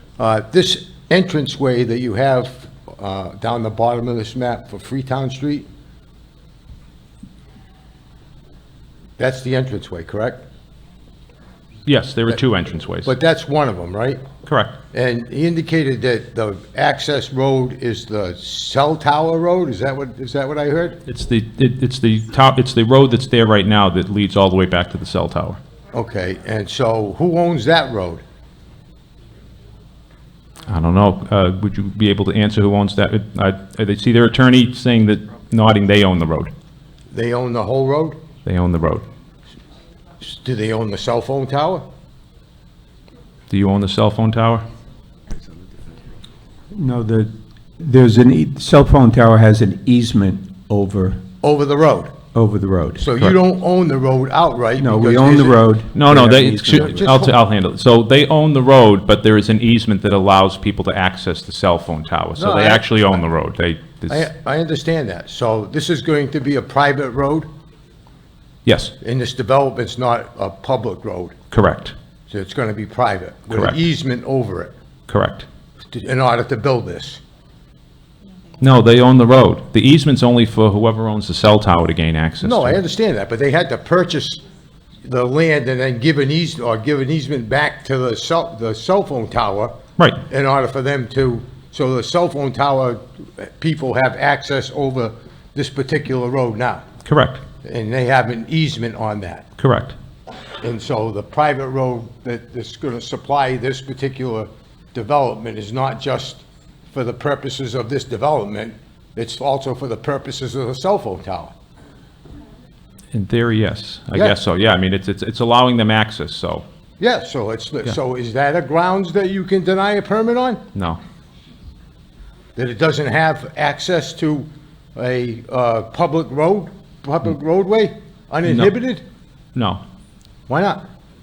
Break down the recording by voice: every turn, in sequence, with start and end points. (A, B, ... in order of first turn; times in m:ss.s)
0:00.2-0:05.6 A
0:09.2-0:10.4 A
0:11.9-0:13.1 B
0:13.0-0:14.2 A
0:14.5-0:14.8 B
0:14.9-0:21.0 A
0:21.0-0:25.6 B
0:25.9-0:28.2 A
0:30.6-0:36.5 B
0:37.1-0:38.2 A
0:38.4-0:39.0 B
0:40.2-0:41.8 A
0:43.5-0:44.6 B
0:46.7-0:51.2 C
0:51.4-0:52.2 A
0:52.3-0:53.1 C
0:53.0-0:55.6 A
0:54.8-0:57.0 C
0:55.9-1:04.3 B
0:56.7-0:57.3 A
1:02.4-1:02.9 A
1:04.1-1:07.5 A
1:08.6-1:08.9 B
1:09.0-1:11.3 A
1:11.5-1:11.9 B
1:12.3-1:14.7 A
1:15.1-1:15.5 B
1:15.9-1:17.2 A
1:18.6-1:22.8 B
1:22.4-1:24.4 A
1:25.0-1:29.7 A
1:30.3-1:36.8 A
1:37.0-1:37.4 B
1:37.6-1:39.4 A
1:39.6-1:39.9 B
1:40.6-1:51.6 A
1:53.1-1:56.6 B
1:57.0-2:00.6 A
2:00.7-2:01.0 B
2:02.6-2:09.0 A
2:08.5-2:08.7 B
2:09.6-2:09.8 B
2:10.5-2:10.8 A